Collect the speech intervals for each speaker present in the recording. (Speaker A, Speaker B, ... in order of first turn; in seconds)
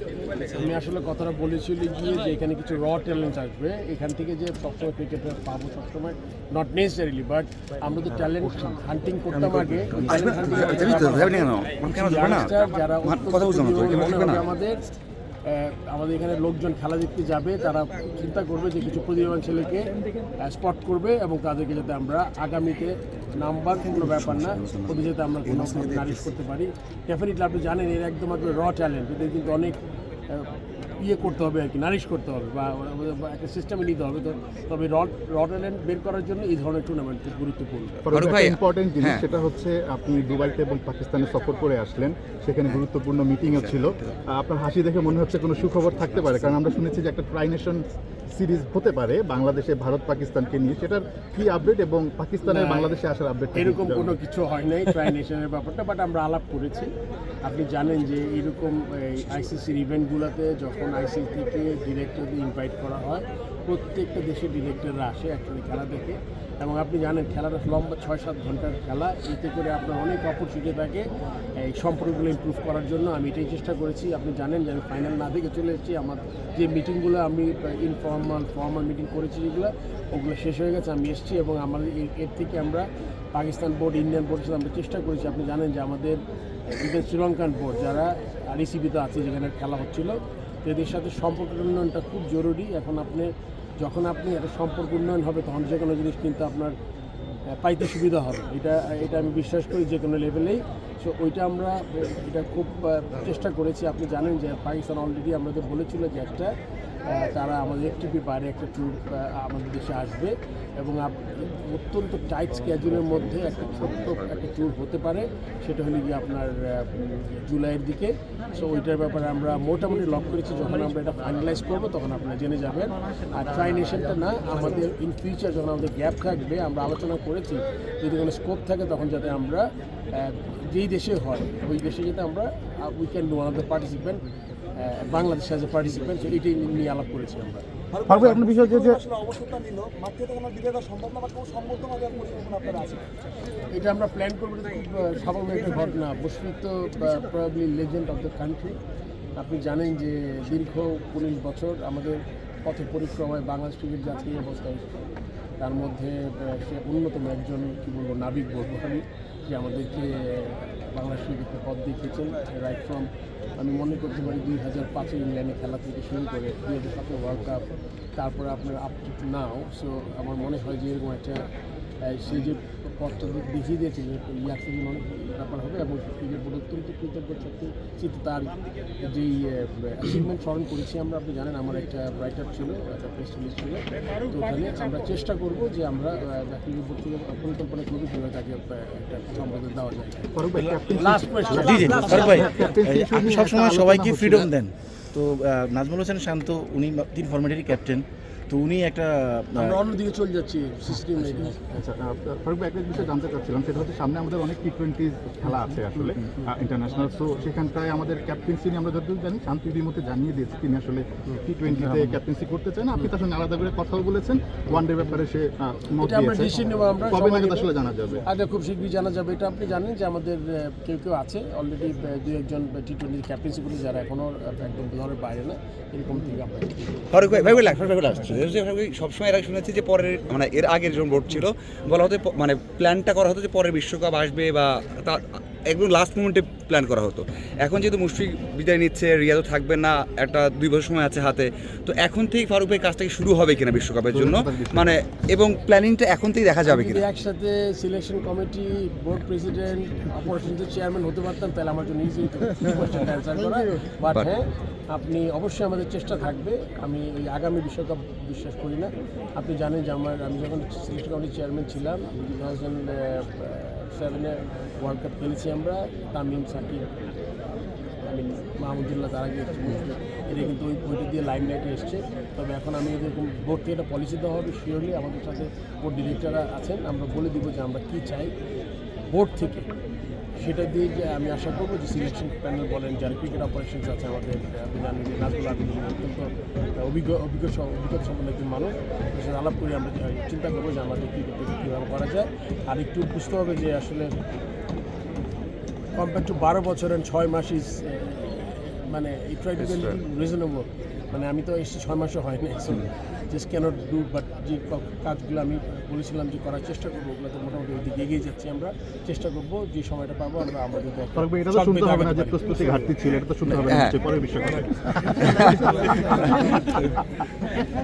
Speaker A: 0.3-14.8, 15.4-38.0, 52.4-52.9, 53.5-96.8, 97.5-134.2, 134.8-137.6, 143.7-148.8, 149.4-155.1, 155.6-171.4, 172.0-190.3, 190.8-192.4, 199.6-201.8, 216.0-217.7, 218.2-227.1, 246.7-267.1, 268.0-278.3, 279.1-279.8, 280.4-294.1, 295.9-312.9
Speaker B: 9.8-12.5, 13.0-14.4, 24.0-26.2, 38.1-39.2, 43.5-44.1, 227.1-247.0, 299.6-299.9, 313.5-313.9, 315.1-316.8
Speaker C: 38.0-54.1, 138.1-139.0, 190.3-194.5, 201.8-216.6, 217.1-218.2, 244.1-244.9, 311.2-316.4
Speaker D: 137.9-143.0
Speaker E: 191.5-199.8